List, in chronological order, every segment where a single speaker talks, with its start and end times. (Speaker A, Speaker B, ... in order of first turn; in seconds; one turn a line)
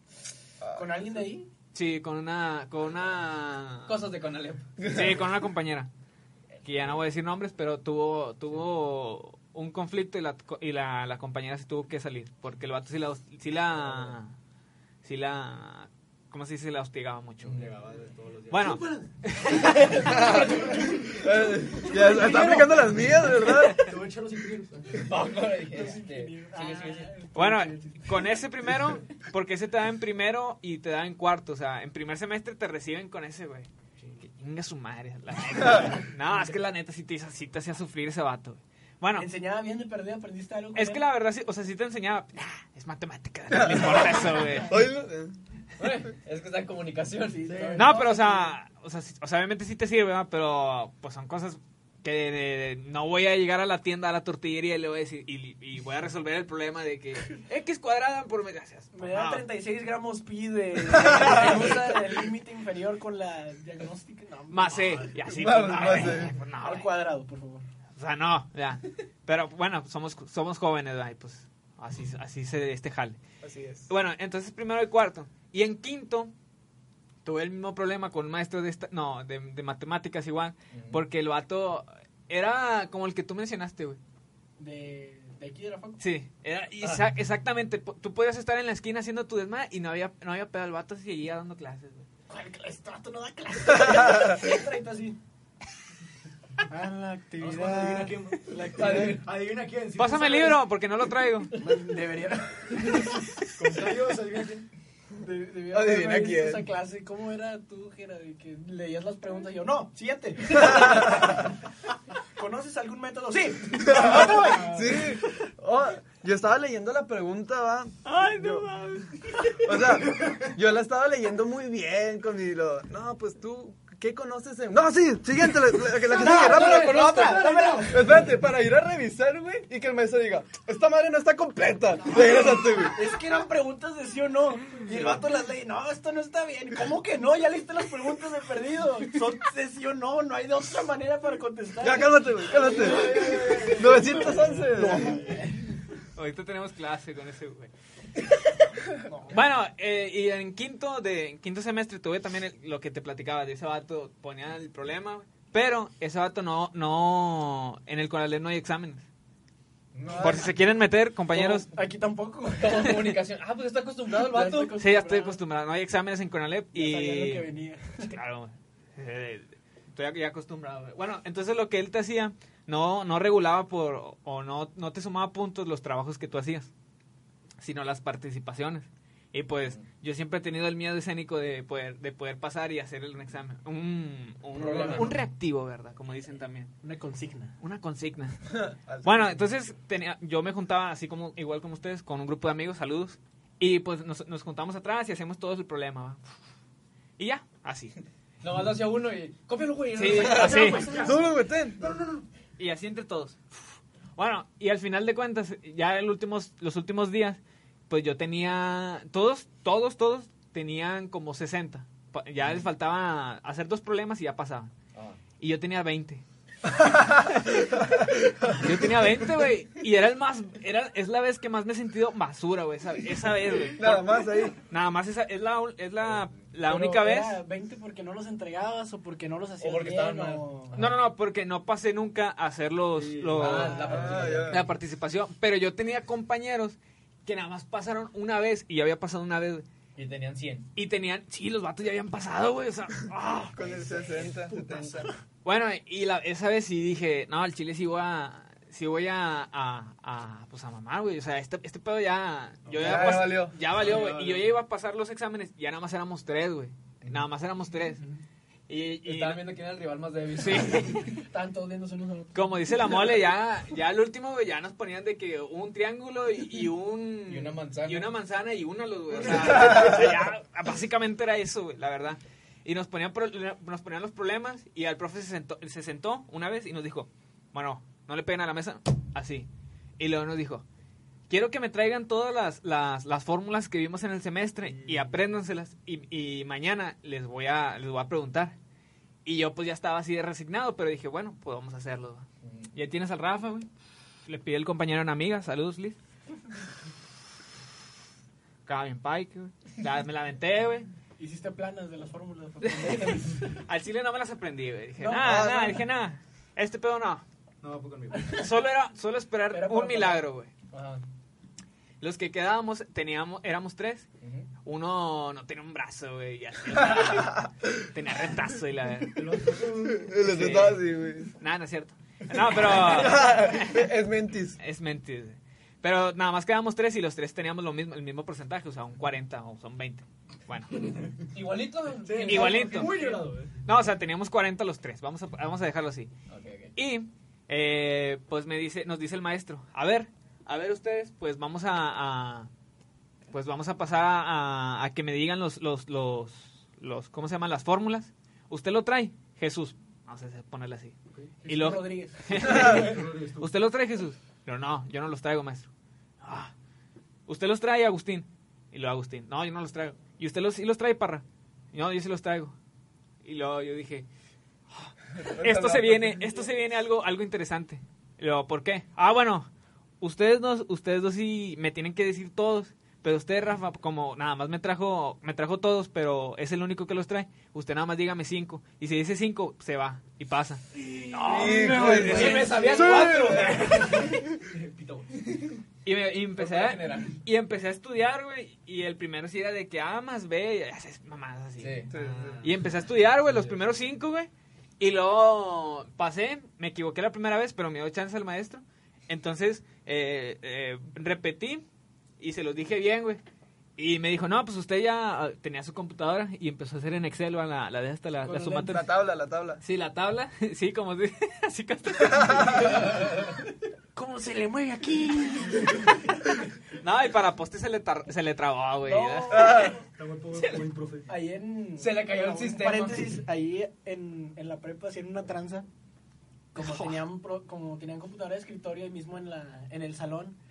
Speaker A: 0.6-0.9
Speaker B: 0.7-1.5
Speaker C: 1.7-4.0
Speaker D: 3.9-4.9
Speaker A: 4.8-5.2
Speaker C: 4.8-5.9
Speaker C: 6.6-14.3
Speaker C: 15.0-17.6
Speaker D: 17.4-17.7
Speaker E: 17.5-25.3
Speaker C: 18.5-20.4
Speaker D: 19.7-20.8
Speaker A: 20.0-23.9
Speaker D: 24.9-27.2
Speaker B: 25.7-28.3
Speaker C: 27.3-33.7
Speaker C: 34.2-39.3
Speaker B: 39.2-41.0
Speaker C: 40.7-44.8
Speaker A: 43.5-45.4
Speaker D: 45.8-47.5
Speaker B: 47.2-48.5
Speaker E: 47.5-48.0
Speaker C: 47.8-59.5
Speaker B: 58.9-65.1
Speaker C: 64.5-66.9
Speaker A: 65.2-66.3
Speaker B: 66.6-67.7
Speaker C: 68.0-73.2
Speaker A: 73.4-73.9
Speaker C: 73.9-76.3
Speaker C: 77.2-84.0
Speaker D: 80.7-81.0
Speaker B: 84.6-86.0
Speaker C: 86.0-92.0
Speaker B: 92.3-95.2
Speaker B: 96.7-99.2
Speaker E: 97.4-100.6
Speaker D: 98.8-99.1
Speaker C: 100.0-101.5
Speaker B: 101.5-103.9
Speaker E: 103.5-104.7
Speaker B: 105.2-111.5
Speaker A: 105.7-106.7
Speaker A: 110.5-111.5
Speaker B: 112.3-115.1
Speaker A: 113.7-118.5
Speaker C: 118.1-119.0
Speaker A: 119.6-127.0
Speaker E: 119.9-120.4
Speaker B: 126.1-128.2
Speaker E: 126.1-128.3
Speaker D: 126.2-127.8
Speaker A: 127.9-133.0
Speaker B: 132.1-145.8
Speaker A: 134.9-135.2
Speaker A: 141.8-145.2
Speaker E: 142.5-145.4
Speaker C: 146.1-147.7
Speaker B: 149.0-149.4
Speaker C: 149.3-159.0
Speaker A: 159.9-160.5
Speaker C: 160.2-161.7
Speaker B: 161.3-163.1
Speaker D: 162.6-164.8
Speaker B: 164.1-165.4
Speaker C: 164.8-167.5
Speaker B: 166.7-168.1
Speaker C: 168.0-176.7
Speaker C: 177.6-186.7
Speaker D: 184.5-185.2
Speaker E: 184.7-185.1
Speaker B: 186.8-187.6
Speaker C: 187.6-196.2
Speaker A: 188.5-189.4
Speaker C: 197.2-198.0
Speaker D: 198.4-201.2
Speaker C: 199.9-200.9
Speaker E: 200.2-202.3
Speaker A: 201.0-201.9
Speaker C: 202.6-203.6
Speaker C: 204.2-214.7
Speaker D: 214.9-215.2
Speaker C: 215.4-216.2
Speaker C: 217.4-217.7
Speaker A: 218.0-218.7
Speaker C: 218.6-227.4
Speaker A: 223.7-224.6
Speaker B: 226.6-230.8
Speaker D: 229.6-230.8
Speaker C: 230.7-233.9
Speaker E: 232.9-234.6
Speaker D: 233.4-234.5
Speaker B: 233.7-234.3
Speaker A: 233.9-234.7
Speaker C: 234.5-239.6
Speaker D: 239.9-240.7
Speaker C: 240.7-244.3
Speaker A: 243.5-245.1
Speaker C: 245.4-258.0
Speaker E: 252.7-254.5
Speaker A: 252.8-253.6
Speaker C: 258.7-259.4
Speaker D: 259.0-261.0
Speaker C: 260.4-261.2
Speaker B: 261.2-262.7
Speaker C: 262.3-280.6
Speaker D: 267.2-268.1
Speaker C: 281.3-288.6
Speaker E: 284.8-285.1
Speaker C: 289.2-293.7
Speaker D: 292.4-292.7
Speaker C: 294.3-296.0
Speaker C: 298.6-300.9
Speaker B: 301.2-303.6
Speaker C: 302.6-307.2
Speaker B: 305.0-305.8
Speaker A: 305.2-305.7
Speaker E: 307.6-308.4
Speaker B: 308.1-308.5
Speaker C: 308.4-310.5
Speaker B: 309.5-310.2
Speaker D: 310.7-311.0
Speaker C: 312.0-314.1
Speaker D: 314.2-314.5
Speaker C: 314.6-319.5
Speaker E: 319.1-320.5
Speaker A: 319.9-321.3
Speaker C: 320.2-320.8
Speaker C: 321.4-323.9
Speaker A: 322.5-324.6
Speaker C: 324.6-330.8
Speaker D: 331.3-333.2
Speaker E: 332.0-333.6
Speaker C: 332.2-332.9
Speaker C: 333.6-336.1
Speaker D: 336.3-336.7
Speaker C: 336.8-342.5
Speaker C: 343.3-350.9
Speaker B: 351.4-352.6
Speaker C: 351.5-355.7
Speaker E: 352.4-353.5
Speaker C: 356.2-356.5
Speaker C: 357.3-362.5
Speaker C: 363.2-364.1
Speaker C: 364.7-369.5
Speaker A: 365.2-366.5
Speaker C: 370.0-383.0
Speaker A: 381.2-384.3
Speaker E: 381.3-382.1
Speaker D: 381.7-384.4
Speaker E: 382.9-385.1
Speaker D: 385.0-385.6
Speaker C: 385.8-391.9
Speaker D: 386.4-387.2
Speaker D: 391.6-391.9
Speaker E: 391.9-392.5
Speaker A: 391.9-392.3
Speaker C: 392.4-401.6
Speaker D: 393.3-393.6
Speaker C: 402.2-403.2
Speaker C: 403.8-408.8
Speaker A: 408.2-409.6
Speaker C: 409.6-413.0
Speaker B: 413.9-416.2
Speaker C: 416.8-419.7
Speaker B: 418.8-419.8
Speaker A: 419.3-419.8
Speaker E: 419.9-421.1
Speaker B: 421.1-425.6
Speaker D: 421.8-423.2
Speaker B: 426.5-430.4
Speaker C: 426.6-427.0